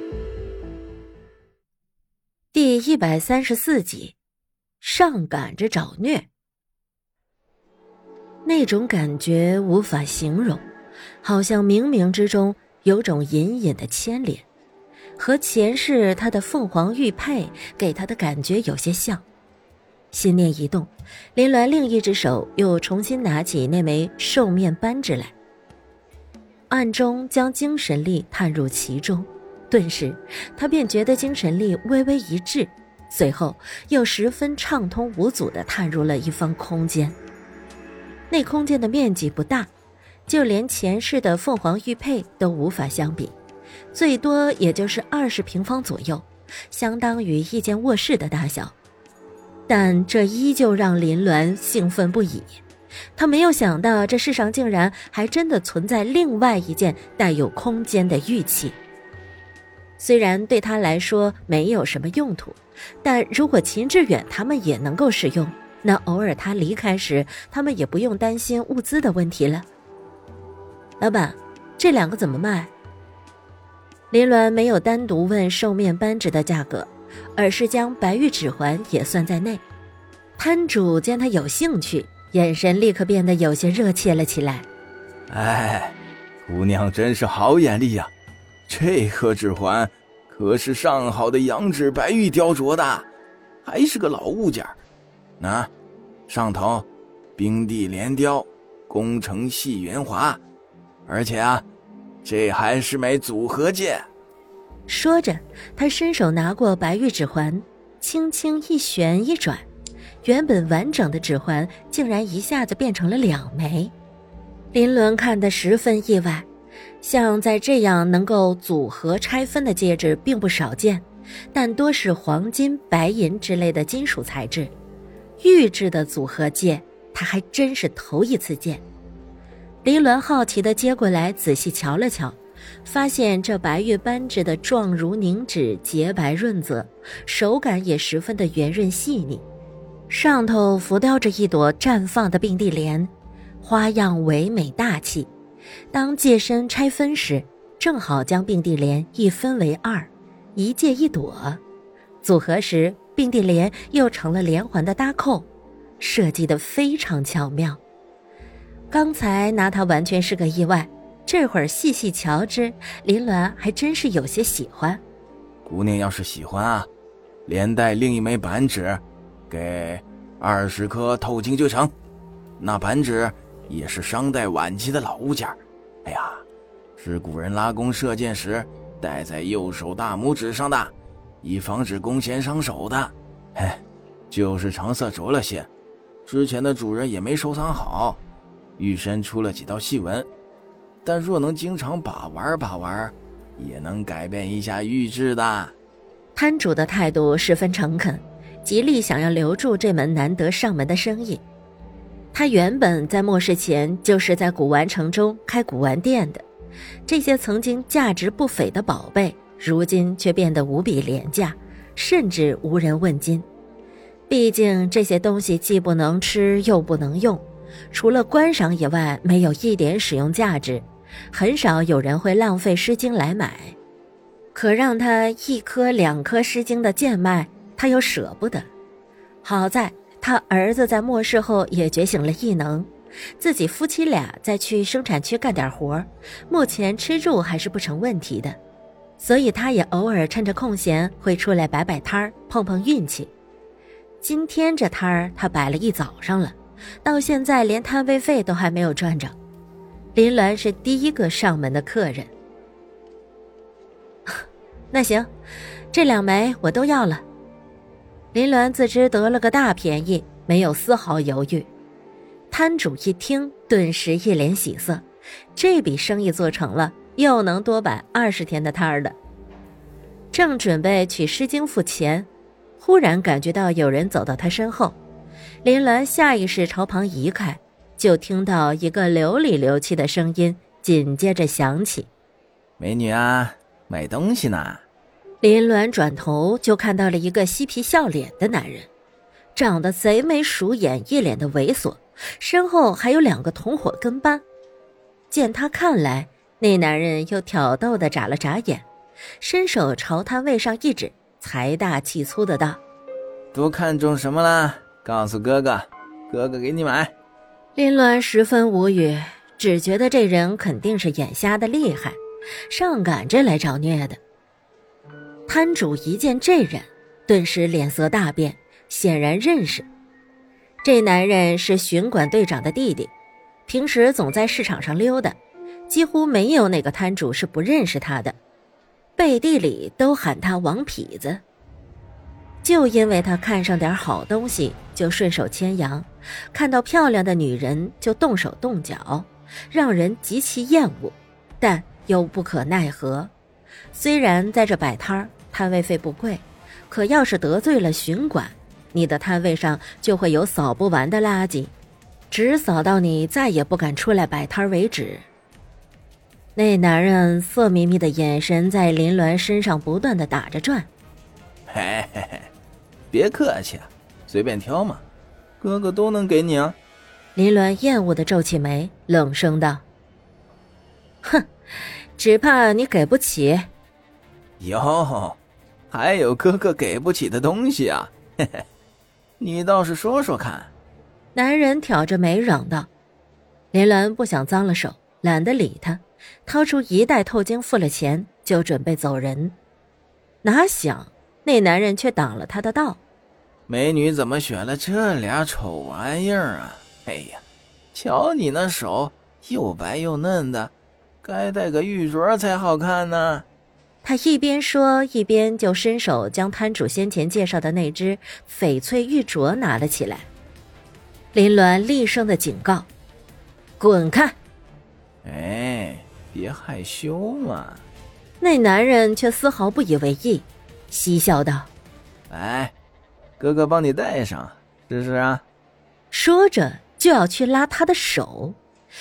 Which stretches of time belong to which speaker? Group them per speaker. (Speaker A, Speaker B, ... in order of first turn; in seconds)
Speaker A: 2.5-4.2, 4.8-6.3, 8.4-10.7, 11.2-14.4, 15.2-19.2, 20.1-25.3, 26.7-37.1, 38.3-39.7, 40.3-43.4, 43.9-48.7, 49.7-52.6, 53.1-58.8, 60.0-69.7, 71.0-72.7, 74.1-79.6, 80.4-84.7, 104.9-109.7, 110.2-113.9, 114.7-116.5, 117.0-124.7, 125.4-128.8, 129.8-139.4, 140.1-145.3, 145.9-151.6, 152.2-155.5, 156.0-157.8, 158.9-165.0, 196.3-201.4, 202.3-206.4, 207.1-213.5, 214.3-223.8, 224.5-228.7, 229.4-238.6, 239.2-243.3, 244.2-249.3, 250.1-252.3, 254.9-255.3, 255.9-257.2, 258.3-261.7, 262.5-269.2, 270.3-275.0, 275.6-282.1, 285.4-288.9, 289.5-294.4, 295.3-298.9, 299.4-302.8, 307.7-312.2, 312.7-314.2, 315.5-319.9, 320.8-323.1, 323.6-325.4, 325.9-328.4, 329.2-331.4, 332.6-343.3, 343.9-351.7, 352.3-355.2, 356.5-360.9, 367.3-369.8, 371.2-371.5, 372.2-373.7, 381.3-382.9, 383.7-389.6, 390.4-393.0, 404.0-410.3, 411.3-412.9, 413.8-414.4, 418.4-421.7, 426.1-428.6
Speaker B: 85.3-88.1, 88.7-93.1, 93.6-94.7, 95.4-95.7, 96.3-96.8, 97.4-100.4, 101.0-101.6, 102.2-104.0, 165.7-166.9, 167.5-171.9, 172.6-176.4, 177.0-185.7, 186.2-188.2, 188.8-190.3, 191.0-195.7, 282.8-284.8, 303.5-307.1, 361.7-362.5, 363.1-365.0, 365.6-366.8, 374.6-375.4, 375.9-378.6, 379.4-380.7, 393.7-397.4, 397.9-400.7, 401.2-403.4, 415.2-417.8, 422.3-422.7, 423.4-425.4